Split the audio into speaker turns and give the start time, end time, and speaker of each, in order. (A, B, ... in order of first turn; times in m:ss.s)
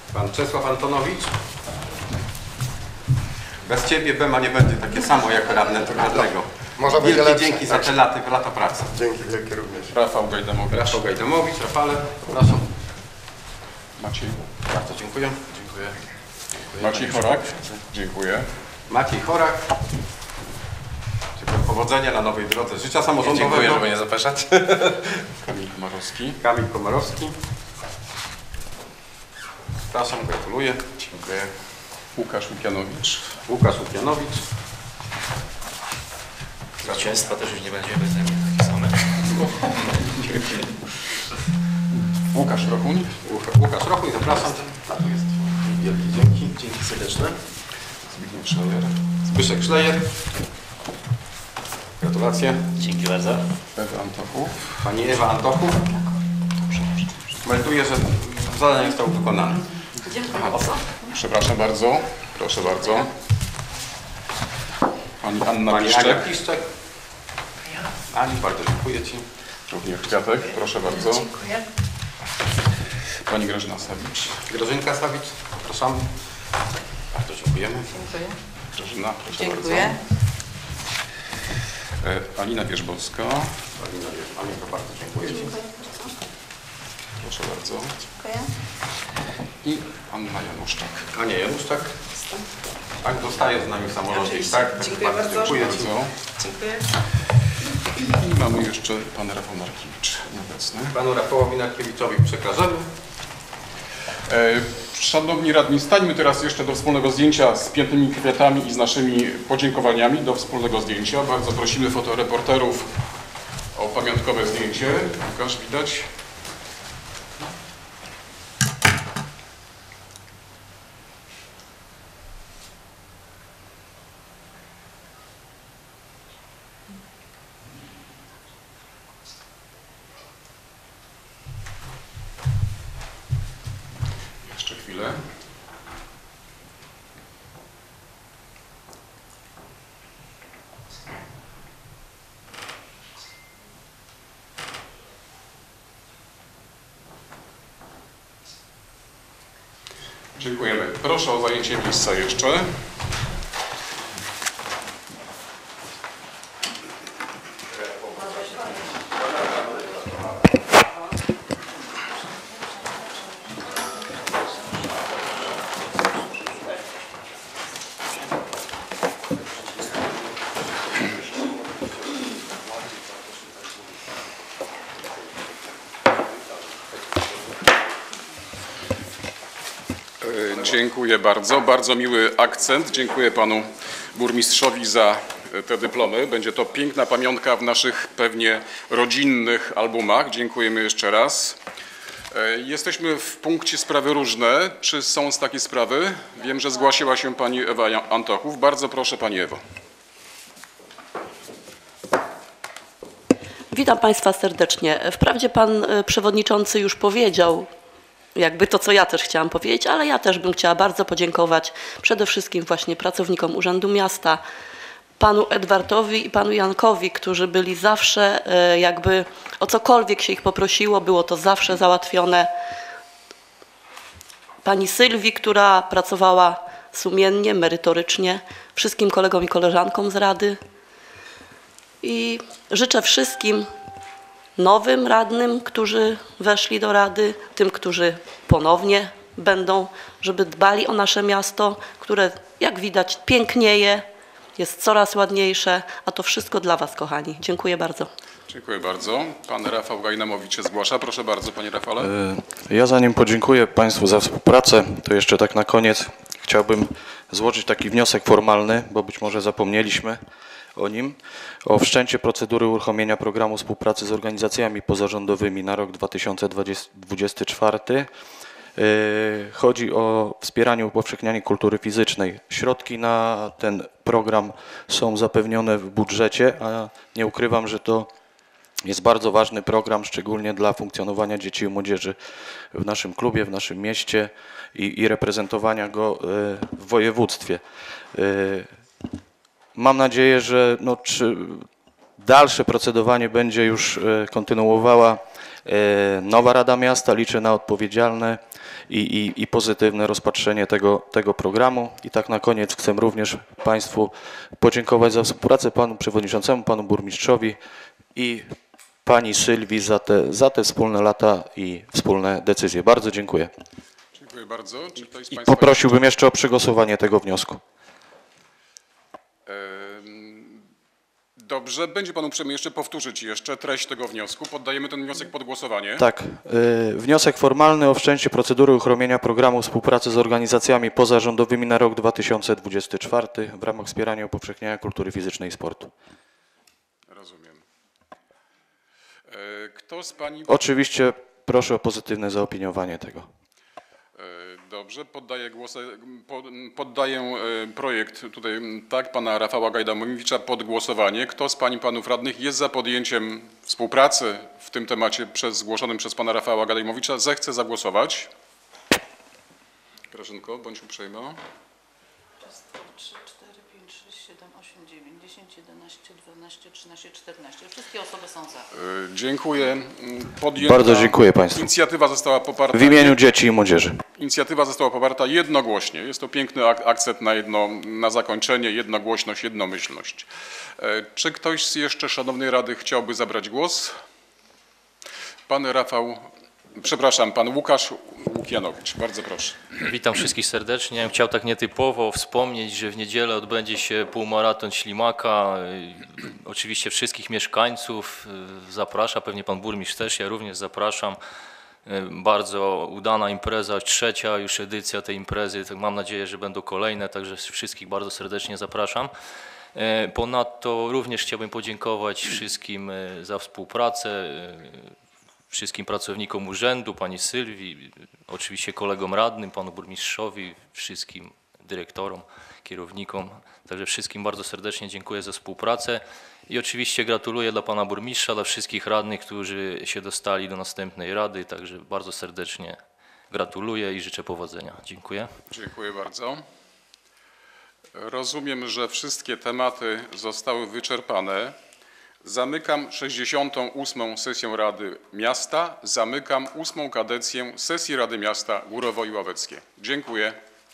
0:00.1-0:01.4 A
0:03.6-0:09.7 A
0:09.8-0:11.0 B
0:10.7-0:12.7 A
0:14.0-0:14.4 B
0:14.7-0:16.0 A
0:16.7-0:17.6 A
0:16.8-0:18.5 B
0:18.9-0:19.8 A
0:21.4-0:25.1 A
0:23.5-0:23.8 B
0:25.4-0:26.4 B
0:26.4-0:27.4 A
0:29.9-0:31.5 A
0:32.2-0:33.3 B
0:33.4-0:34.5 A
0:36.8-0:39.4 C
0:42.2-0:43.2 B
0:43.2-0:46.8 A
0:46.7-0:47.4 C
0:48.1-0:49.0 B
0:49.2-0:50.2 A
0:52.0-0:52.8 A
0:52.8-0:53.4 C
0:53.8-0:54.8 B
0:54.8-0:56.0 A
0:57.4-0:59.8 A
1:00.3-1:03.1 B
1:00.5-1:00.8 A
1:05.2-1:06.3 B
1:05.6-1:06.7 A
1:08.1-1:09.2 A
1:09.7-1:11.4 B
1:13.2-1:14.4 B
1:14.4-1:16.1 A
1:17.1-1:18.1 A
1:18.7-1:20.0 B
1:22.0-1:23.5 B
1:23.7-1:25.6 A
1:27.2-1:28.0 B
1:29.6-1:31.1 B
1:31.1-1:32.2 A
1:33.0-1:35.9 A
1:35.6-1:36.2 B
1:38.0-1:40.9 B
1:40.9-1:42.9 A
1:44.3-1:52.9 B
1:53.7-1:56.1 B
2:14.4-2:15.2 B
2:30.4-2:32.7 B
3:00.2-3:11.6 B
3:12.3-3:19.6 B
3:23.7-3:27.7 D
3:28.3-3:34.4 D
3:35.2-3:42.5 D
3:44.6-3:50.6 D
3:52.0-3:53.7 D
3:54.6-4:08.1 D
4:08.5-4:12.1 B
4:12.0-4:20.2 E
4:20.8-4:28.1 E
4:28.8-4:38.1 E
4:38.8-4:47.6 E
4:48.1-4:48.8 E
4:49.7-5:07.6 E
5:08.1-5:08.5 E
5:09.0-5:13.5 E
5:14.1-5:16.1 B
5:15.3-5:17.6 E
5:19.4-5:20.6 B
5:21.4-5:26.0 B
5:26.0-5:35.9 E
5:37.1-5:37.6 B
5:39.3-5:40.7 B
5:40.5-5:43.3 E
5:44.2-5:58.3 B
6:00.1-6:01.4 B
6:02.4-6:08.7 F
6:08.7-6:13.2 B
6:10.6-6:11.7 E
6:12.7-6:14.0 E
6:14.2-6:20.3 B
6:20.8-6:23.9 B
6:25.5-6:29.7 B
6:29.8-6:41.2 G
6:41.8-6:49.1 G
6:49.7-6:54.9 G
6:55.5-7:12.8 G
7:13.3-7:15.3 G
7:15.5-7:16.4 B
7:17.9-7:21.6 B
7:22.2-7:30.4 B